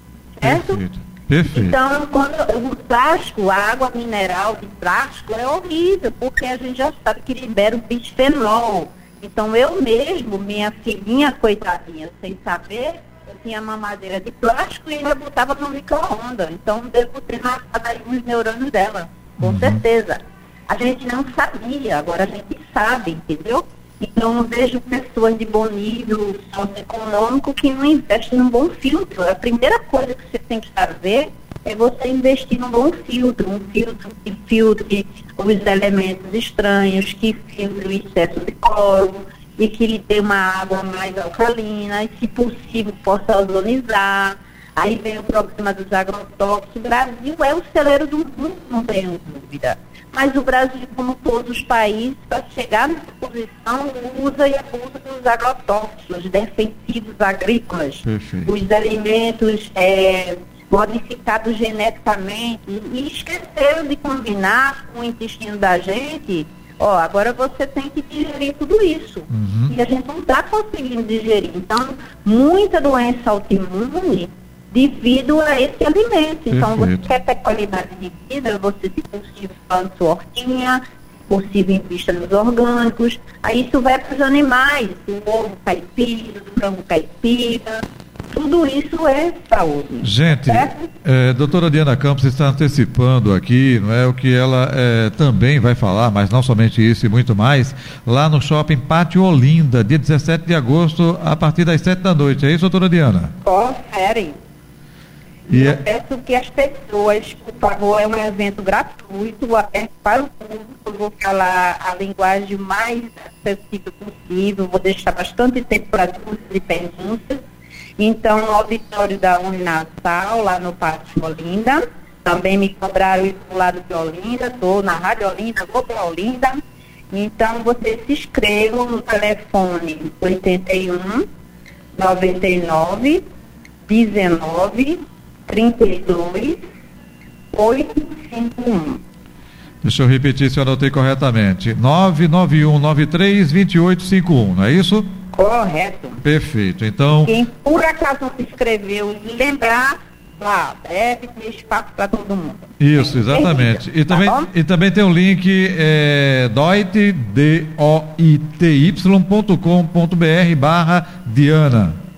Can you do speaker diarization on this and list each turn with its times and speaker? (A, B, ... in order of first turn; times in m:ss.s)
0:00.4-0:00.8 A
0:00.4-0:01.8 B
0:01.5-1:30.9 A
0:19.4-0:19.8 B
0:58.0-0:58.5 B
1:09.3-1:09.8 B
1:16.5-1:17.1 B
1:30.0-1:43.3 B
1:43.4-1:44.4 A
1:45.5-1:45.8 B
1:45.5-1:57.4 A
1:58.0-2:06.6 A
2:07.1-2:11.2 A
2:12.0-2:13.2 A
2:13.9-2:16.6 A
2:17.5-2:19.0 A
2:19.8-2:25.1 B
2:25.3-2:26.2 A
2:26.2-2:27.4 B
2:27.2-2:34.5 A
2:32.8-2:42.0 B